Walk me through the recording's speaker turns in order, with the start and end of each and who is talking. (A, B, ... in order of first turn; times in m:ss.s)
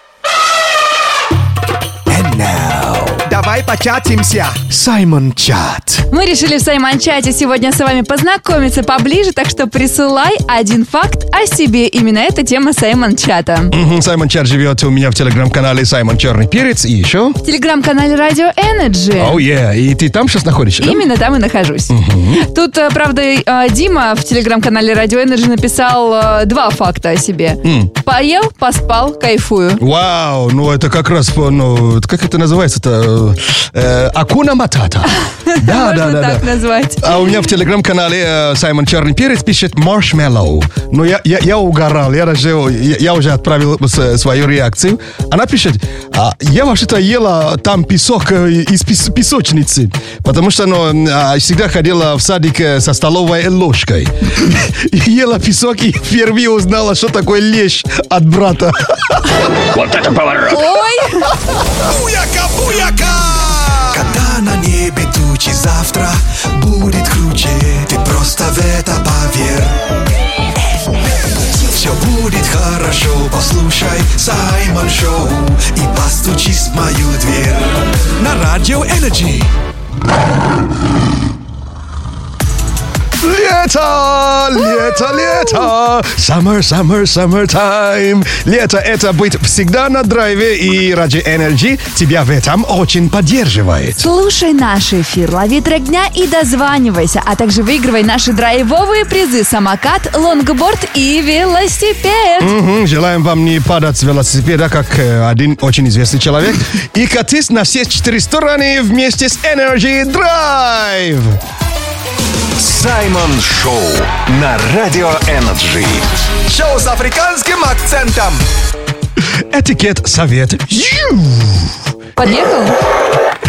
0:02.1-0:03.2 A
0:03.3-0:04.6 B
0:04.7-0:06.0 A
0:06.1-0:13.7 C
0:13.7-0:17.4 D
0:17.4-0:19.4 C
0:19.2-0:21.1 D
0:20.8-0:29.8 C
0:21.9-0:22.4 D
0:27.6-0:27.9 D
0:29.8-0:36.5 D
0:35.4-0:37.4 C
0:37.0-0:59.2 D
1:00.4-1:01.3 C
1:01.8-1:09.8 A
1:11.5-1:19.5 A
1:23.2-1:34.1 D
1:24.7-1:25.7 C
1:34.0-1:42.5 C
1:42.4-1:51.4 D
1:52.6-1:56.1 E
1:56.5-1:58.4 B
1:59.5-2:01.7 D
2:02.2-2:02.8 C